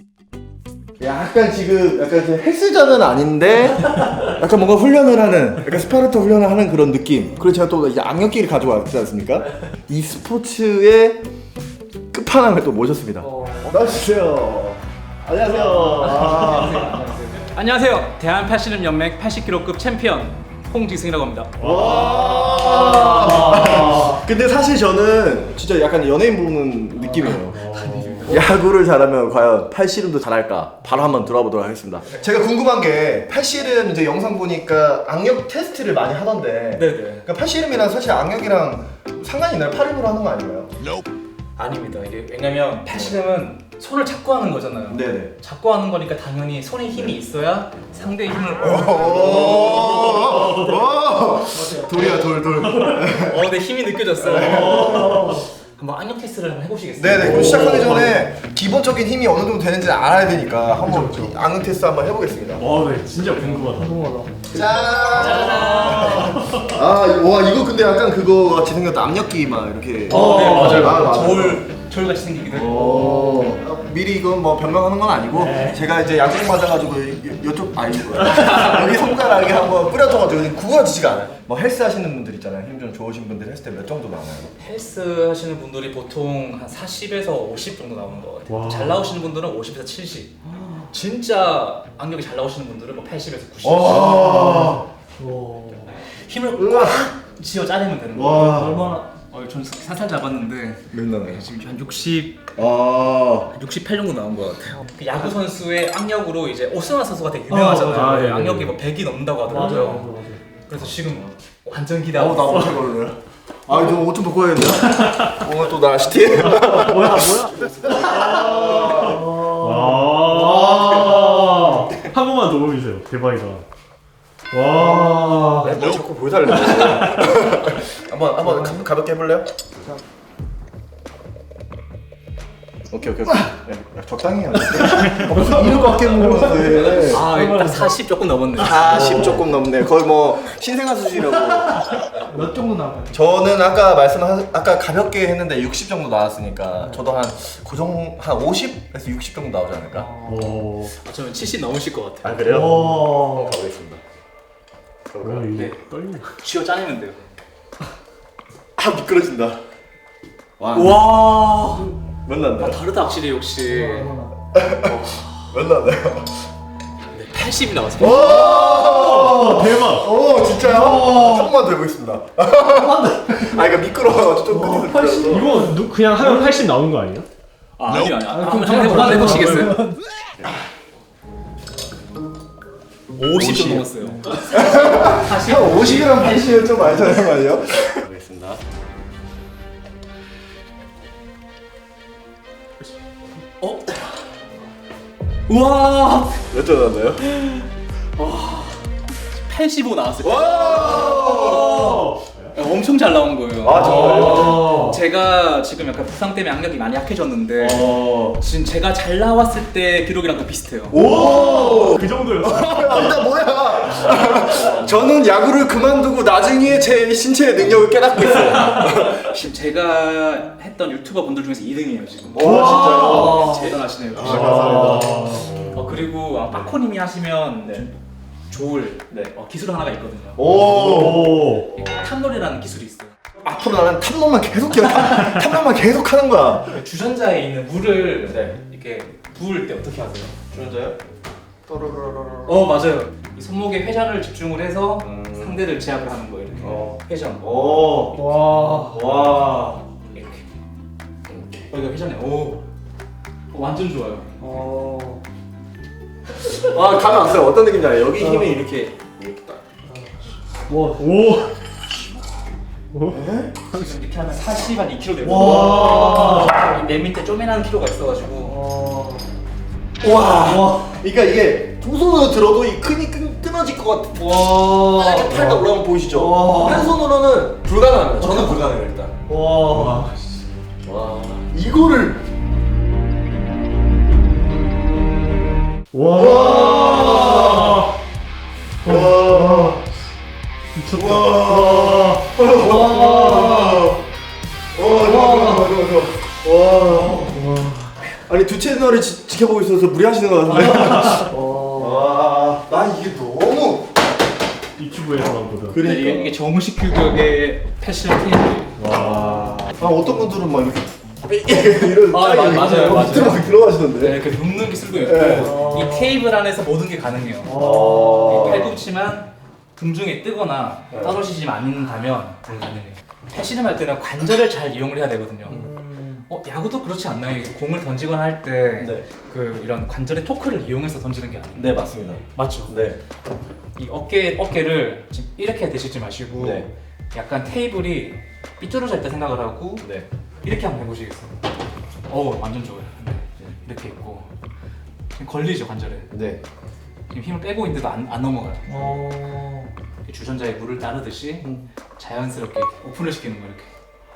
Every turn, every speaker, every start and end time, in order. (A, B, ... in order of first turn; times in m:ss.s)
0:01.0-0:11.2 A
0:12.1-0:17.0 A
0:13.2-0:13.8 B
0:15.9-0:21.6 C
0:21.6-0:24.1 D
0:21.6-0:27.6 A
0:27.2-0:28.4 C
0:27.4-0:28.3 D
0:28.2-0:40.7 A
0:36.8-0:37.2 C
0:41.6-0:49.9 C
0:44.9-0:45.3 A
0:48.6-0:53.5 A
0:51.5-0:52.3 B
0:53.0-0:57.8 C
0:54.2-0:55.3 A
0:57.0-1:02.6 A
0:57.2-0:58.2 D
1:00.8-1:01.4 D
1:02.6-1:04.2 D
1:03.7-1:04.6 B
1:04.5-1:11.6 A
1:05.0-1:06.3 C
1:05.5-1:06.6 D
1:10.1-1:13.1 C
1:10.3-1:11.0 D
1:12.5-1:24.5 A
1:13.0-1:13.5 B
1:24.6-1:30.4 C
1:28.5-1:29.1 D
1:30.9-1:34.5 C
1:33.6-1:34.8 A
1:34.2-1:35.9 B
1:36.0-1:38.6 C
1:36.6-1:37.1 A
1:38.1-1:39.0 A
1:38.3-1:39.0 B
1:39.1-1:42.4 C
1:40.9-1:41.4 A
1:42.6-1:43.5 A
1:43.5-1:50.1 C
1:47.5-1:48.7 D
1:49.5-1:50.4 D
1:49.5-1:50.1 B
1:50.6-1:53.0 C
1:51.0-1:51.3 A
1:52.1-1:57.3 A
1:56.3-2:03.6 D
1:57.9-1:59.2 A
1:59.0-2:01.9 B
2:00.3-2:01.5 A
2:04.5-2:05.7 D
2:04.8-2:09.5 A
2:06.7-2:07.3 D
2:12.9-2:17.2 A
2:14.9-2:16.1 D
2:15.4-2:17.9 B
2:17.0-2:19.4 C
2:18.6-2:22.2 A
2:18.9-2:19.2 B
2:19.0-2:19.4 D
2:21.8-2:23.2 B
2:23.1-2:30.1 A
2:29.9-2:30.6 B
2:30.2-2:30.9 D
2:30.9-2:32.5 C
2:32.2-2:34.0 A
2:32.5-2:33.1 D
2:32.5-2:33.5 B
2:35.1-2:35.7 A
2:35.2-2:36.4 D
2:35.5-2:37.3 C
2:38.8-2:39.6 A
2:40.6-2:41.6 A
2:40.7-2:41.9 C
2:42.2-2:42.8 A
2:42.6-2:44.1 C
2:43.7-2:44.5 B
2:44.5-2:46.4 A
2:44.8-2:45.3 C
2:47.1-2:48.6 C
2:48.0-2:55.6 A
2:48.4-2:50.1 D
2:50.7-2:51.5 B
2:52.7-2:53.7 B
2:54.5-2:55.7 B
2:55.2-2:57.3 D
2:57.8-2:59.8 C
2:58.3-3:00.0 B
3:03.1-3:06.4 C
3:03.4-3:08.6 A
3:13.6-3:14.0 C
3:15.5-3:16.4 C
3:16.5-3:17.6 A
3:18.2-3:18.7 C
3:19.4-3:22.0 C
3:20.2-3:22.0 A
3:21.0-3:22.5 D
3:22.5-3:31.0 C
3:23.6-3:24.9 A
3:27.6-3:28.4 A
3:30.9-3:39.4 A
3:30.9-3:33.2 D
3:38.6-3:47.9 C
3:42.3-3:45.7 A
3:42.4-3:43.0 D
3:44.2-3:45.5 D
3:48.5-3:53.1 C
3:50.4-3:51.4 A
3:50.5-3:51.7 D
3:53.4-3:56.8 A
3:56.7-4:00.4 C
3:58.2-3:58.6 A
4:00.5-4:01.0 A
4:01.7-4:02.7 A
4:02.4-4:07.5 C
4:05.0-4:05.6 A
4:06.6-4:09.8 A
4:08.2-4:09.0 B
4:10.1-4:10.4 C
4:11.3-4:11.6 A
4:11.7-4:12.6 C
4:13.5-4:14.3 C
4:14.4-4:15.2 B
4:16.4-4:19.6 A
4:20.7-4:21.0 B
4:21.0-4:21.5 D
4:23.1-4:23.5 A
4:23.7-4:28.6 C
4:25.2-4:26.7 B
4:25.4-4:26.4 A
4:28.4-4:29.2 B
4:30.0-4:39.2 A
4:30.4-4:30.8 B
4:35.2-4:35.6 B
4:36.1-4:36.9 B
4:39.3-4:40.0 B
4:39.7-4:40.2 D
4:40.8-4:42.2 A
4:45.9-4:47.9 D
4:46.1-4:47.9 A
4:48.8-4:49.8 D
4:48.8-4:49.8 A
4:50.8-4:52.3 D
4:50.9-4:54.0 A
4:53.0-4:53.7 B
4:54.7-4:57.4 A
4:55.1-4:55.8 B
4:57.3-4:57.9 D
4:58.2-5:03.9 A
5:01.1-5:02.0 B
5:04.8-5:05.8 D
5:05.7-5:06.3 A
5:05.8-5:08.7 C
5:08.8-5:09.7 D
5:08.9-5:14.2 A
5:12.1-5:13.5 C
5:14.0-5:17.6 C
5:15.0-5:15.6 A
5:15.3-5:16.1 B
5:17.5-5:18.4 B
5:17.5-5:18.7 A
5:18.2-5:25.7 C
5:20.9-5:21.2 A
5:25.5-5:26.2 B
5:26.3-5:32.8 C
5:28.8-5:29.0 A
5:31.6-5:33.0 A
5:33.8-5:39.9 C
5:36.4-5:36.7 A
5:39.8-5:40.1 A
5:40.4-5:41.4 C
5:42.1-5:44.3 C
5:45.1-5:46.1 C
5:46.1-5:46.4 A
5:47.1-5:48.9 C
5:48.7-5:49.7 B
5:50.0-5:53.7 C